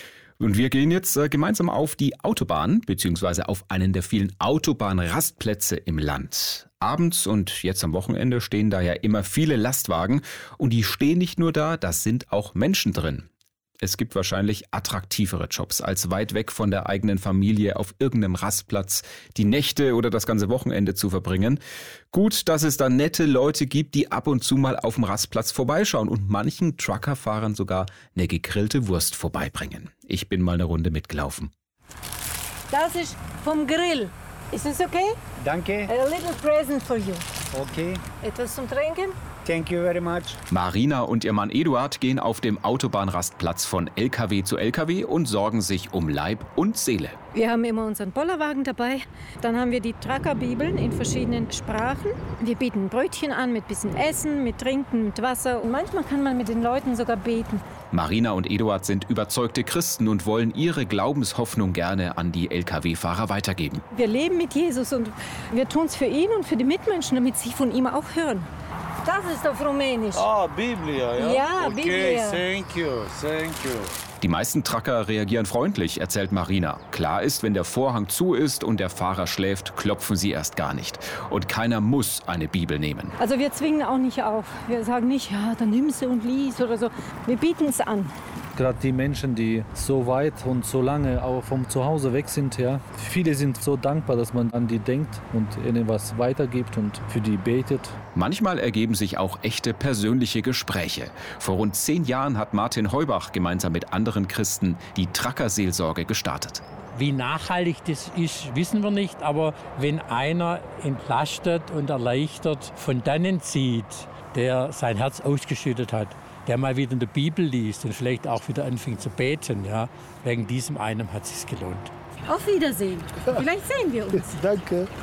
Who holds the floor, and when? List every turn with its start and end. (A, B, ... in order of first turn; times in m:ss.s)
0:00.4-0:13.3 A
0:13.8-0:21.6 A
0:22.1-0:31.5 A
0:32.7-0:35.2 B
0:35.4-0:35.9 C
0:35.9-0:37.2 B
0:37.5-0:38.0 C
0:38.2-0:39.1 B
0:39.4-0:40.4 C
0:40.5-0:47.2 A
0:47.3-0:57.6 B
0:57.9-1:03.8 A
1:03.9-1:08.5 B
1:09.0-1:10.2 B
1:10.1-1:13.9 D
1:11.2-1:12.4 B
1:14.2-1:23.2 A
1:23.2-1:28.1 B
1:28.6-1:37.9 E
1:38.1-1:46.6 A
1:46.9-2:01.9 F
2:02.2-2:04.4 B